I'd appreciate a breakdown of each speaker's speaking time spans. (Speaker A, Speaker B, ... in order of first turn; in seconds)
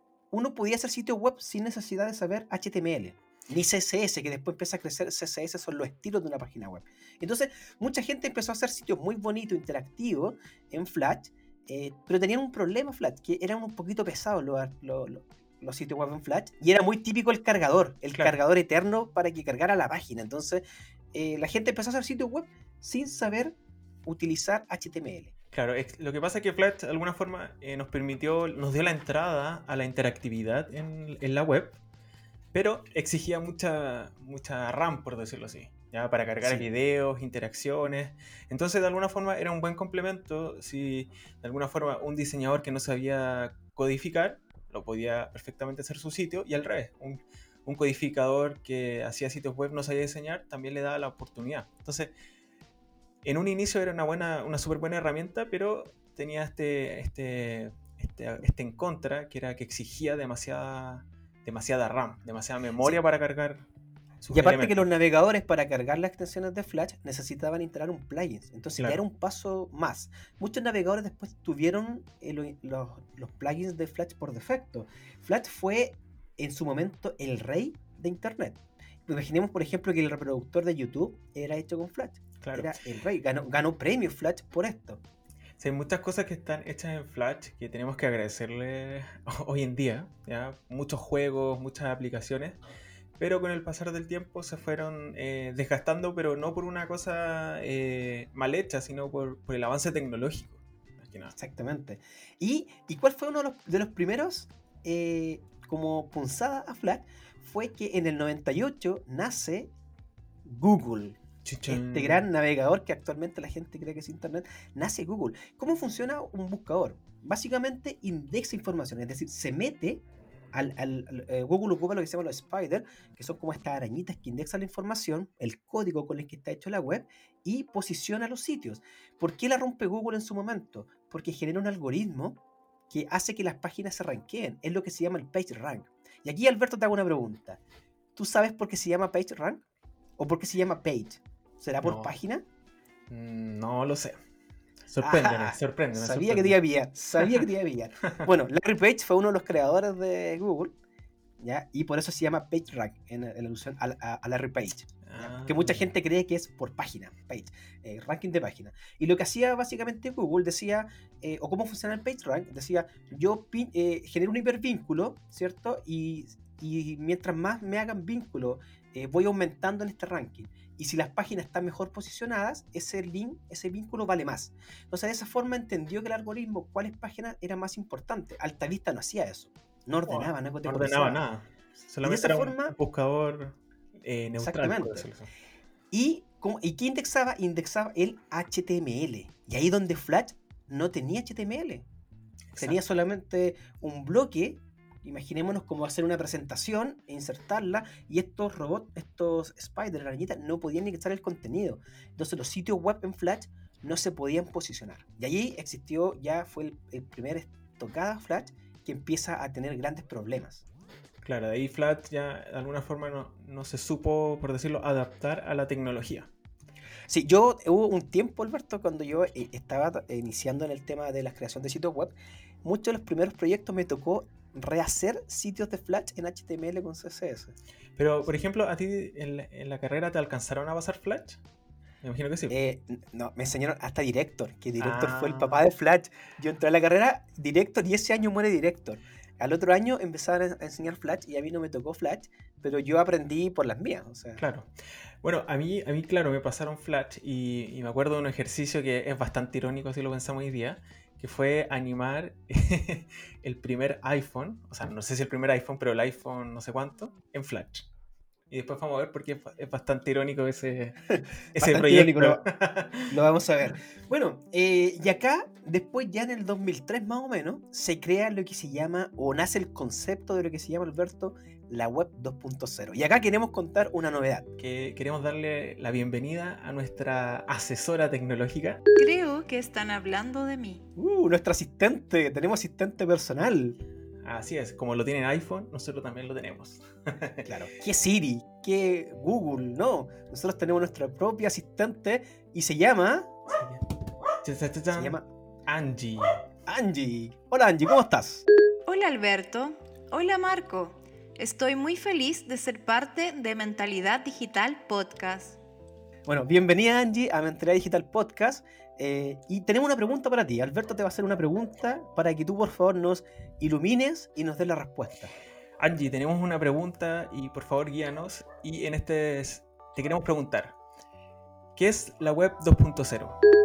Speaker A: 0.3-25.3, 36.4-36.7, 64.3-85.0, 101.3-109.7, 110.5-132.4, 132.9-137.6, 138.2-139.6, 140.2-142.4, 145.0-150.7, 151.4-181.2, 182.0-182.8, 184.4-185.1, 185.9-191.8, 192.6-210.6, 217.1-227.5, 232.5-244.4, 261.1-262.5, 263.1-274.5, 281.0-283.8, 287.4-293.4, 294.9-295.3, 296.7-298.4, 306.3-315.3
Speaker B: 25.5-31.8, 32.5-52.1, 53.2-63.7, 64.2-64.9, 68.8-69.0, 82.4-82.8, 85.6-92.6, 93.2-101.3, 111.5-112.2, 141.8-142.1, 143.1-144.2, 144.9-146.6, 155.1-155.9, 180.1-185.3, 192.5-192.8, 211.2-216.3, 228.0-231.4, 232.0-232.5, 234.8-235.6, 244.4-257.9, 258.5-261.0, 261.6-263.1, 274.6-278.8, 284.2-287.5, 294.4-296.4, 315.8-320.8, 321.8-323.4
Speaker C: 279.0-280.8, 298.9-305.6